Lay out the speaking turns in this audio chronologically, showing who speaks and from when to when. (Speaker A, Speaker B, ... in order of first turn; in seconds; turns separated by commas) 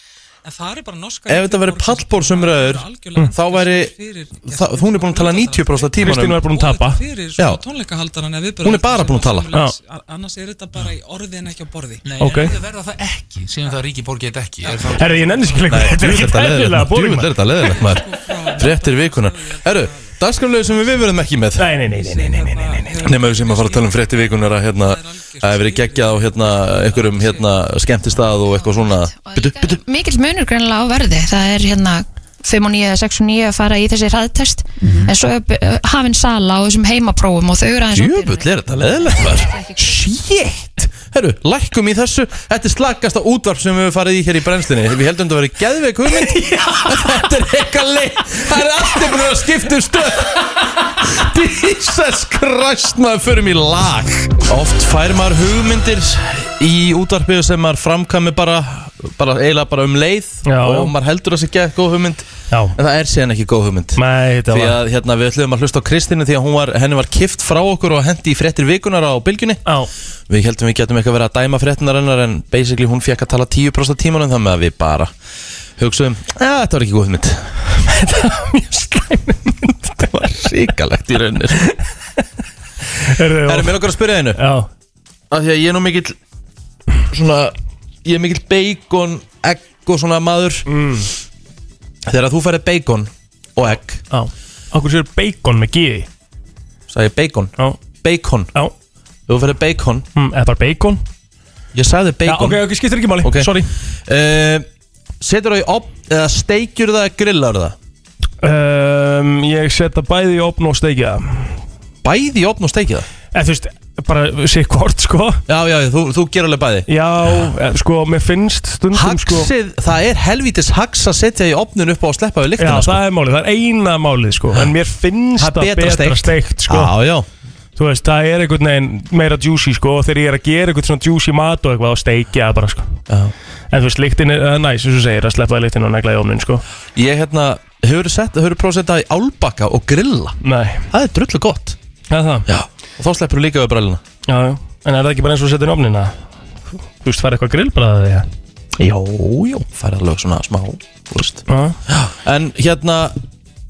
Speaker A: 0.4-12.0, Speaker B: 1.3-3.9, Speaker B: 4.5-6.4, Speaker C: 6.0-7.0, Speaker B: 8.6-9.5, Speaker D: 12.0-15.8, Speaker C: 12.2-12.6, Speaker A: 14.6-15.6, Speaker C: 15.0-17.8, Speaker B: 15.7-18.0, Speaker A: 17.6-27.6, Speaker B: 18.5-21.7, Speaker C: 21.6-23.1, Speaker B: 23.0-29.8, Speaker E: 28.7-39.9, Speaker D: 34.8-35.1, Speaker B: 37.9-69.6, Speaker C: 60.5-60.9, Speaker C: 62.5-62.8, Speaker C: 64.0-64.8, Speaker B: 70.3-75.1, Speaker B: 75.8-77.6, Speaker C: 77.8-80.1, Speaker B: 80.0-81.7, Speaker C: 83.0-84.7, Speaker B: 83.4-84.4, Speaker B: 85.3-86.2, Speaker B: 87.1-90.7, Speaker C: 90.7-91.1, Speaker B: 92.1-94.0, Speaker C: 94.1-96.1, Speaker B: 96.9-98.5, Speaker B: 99.3-100.0, Speaker C: 100.2-101.0, Speaker B: 101.7-102.6, Speaker C: 102.2-103.7, Speaker B: 103.2-103.5, Speaker B: 104.0-104.7, Speaker B: 105.2-107.8, Speaker C: 108.4-111.5, Speaker B: 112.0-113.1, Speaker C: 113.3-115.4, Speaker B: 115.5-116.8, Speaker C: 116.9-119.5, Speaker B: 118.9-123.0, Speaker C: 122.6-126.9, Speaker B: 125.4-127.3, Speaker C: 127.8-133.0, Speaker C: 133.7-136.6, Speaker B: 136.9-140.4, Speaker C: 140.4-140.9, Speaker B: 140.9-141.8, Speaker C: 142.1-142.5, Speaker B: 142.5-144.0, Speaker C: 144.3-146.1, Speaker C: 147.0-148.2, Speaker B: 148.8-153.2, Speaker C: 151.5-151.8